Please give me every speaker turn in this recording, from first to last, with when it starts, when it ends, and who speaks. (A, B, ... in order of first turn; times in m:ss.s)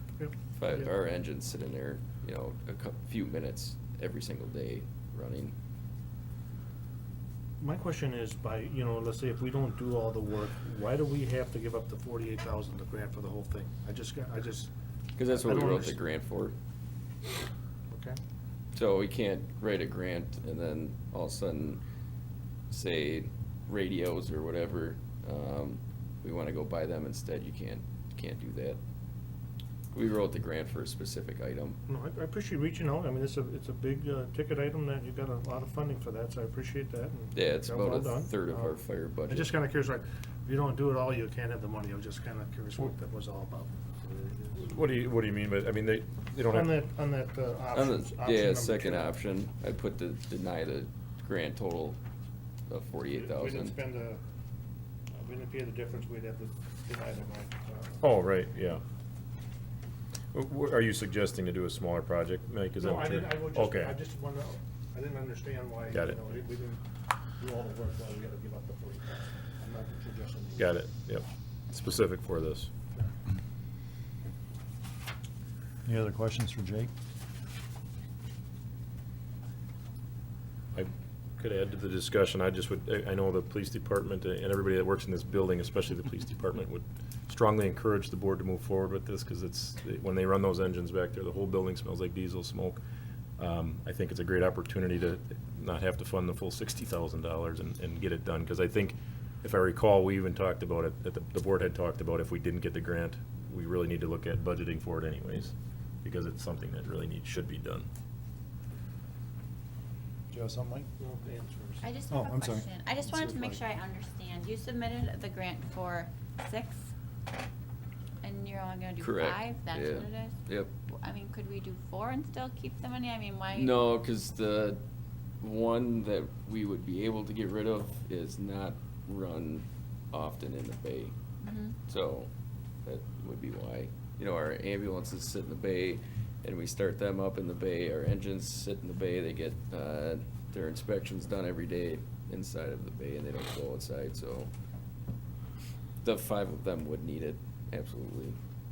0:00.2-0:00.9 A
0:00.6-0:05.5 B
0:07.6-0:16.0 A
0:15.2-0:16.6 B
0:17.9-0:18.2 A
0:18.7-0:21.8 B
0:22.7-0:28.8 B
0:29.9-0:31.8 B
0:31.9-0:44.7 A
0:37.3-0:39.5 B
0:44.6-0:46.8 C
0:46.4-0:49.1 A
0:47.7-0:52.0 B
0:52.7-0:53.8 B
0:53.1-0:54.2 A
0:55.1-0:58.1 A
0:58.0-0:58.8 C
1:00.3-1:04.0 C
1:02.8-1:06.8 A
1:07.4-1:10.8 A
1:10.6-1:12.7 C
1:15.8-1:16.9 D
1:20.7-1:32.8 C
1:33.4-1:47.9 C
1:50.3-1:50.9 D
1:51.0-1:51.8 A
1:51.8-1:56.9 E
1:52.1-1:53.6 D
1:58.2-2:03.8 E
1:59.0-2:00.7 B
2:03.5-2:04.8 B
2:05.4-2:11.1 B
2:11.4-2:11.8 E
2:11.8-2:12.3 B
2:12.8-2:24.5 B
2:26.0-2:28.4 B